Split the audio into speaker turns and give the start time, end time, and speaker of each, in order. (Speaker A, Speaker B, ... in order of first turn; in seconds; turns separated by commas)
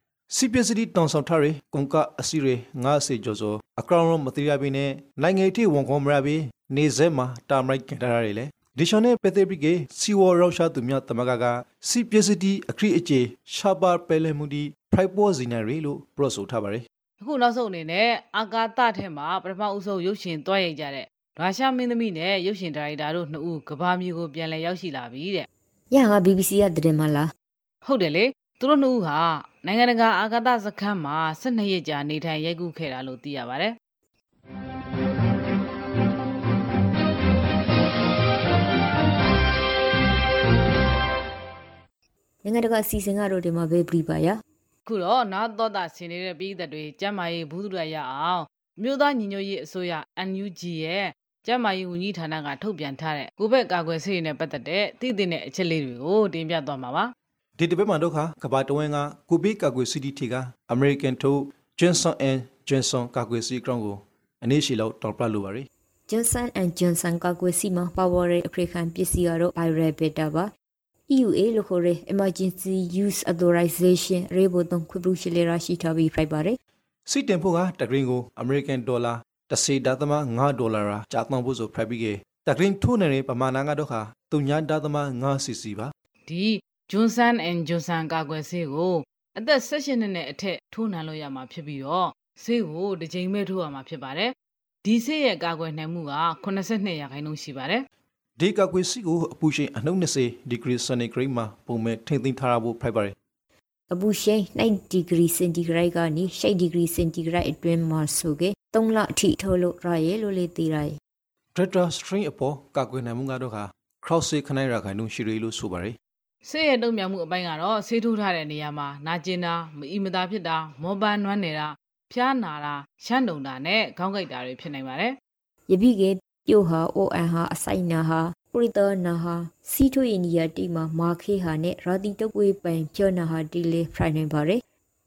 Speaker A: 0.3-16.9, Speaker B: 17.2-25.5, Speaker C: 25.9-27.3, Speaker B: 27.8-33.8, Speaker C: 42.4-44.4, Speaker B: 44.9-57.1, Speaker A: 57.6-65.7, Speaker C: 66.1-70.5, Speaker C: 71.1-76.6, Speaker A: 77.1-85.9, Speaker B: 86.3-94.3, Speaker B: 94.8-97.8, Speaker A: 98.4-103.2, Speaker C: 103.9-111.0, Speaker A: 111.5-116.0, Speaker B: 116.4-125.2, Speaker C: 125.7-134.6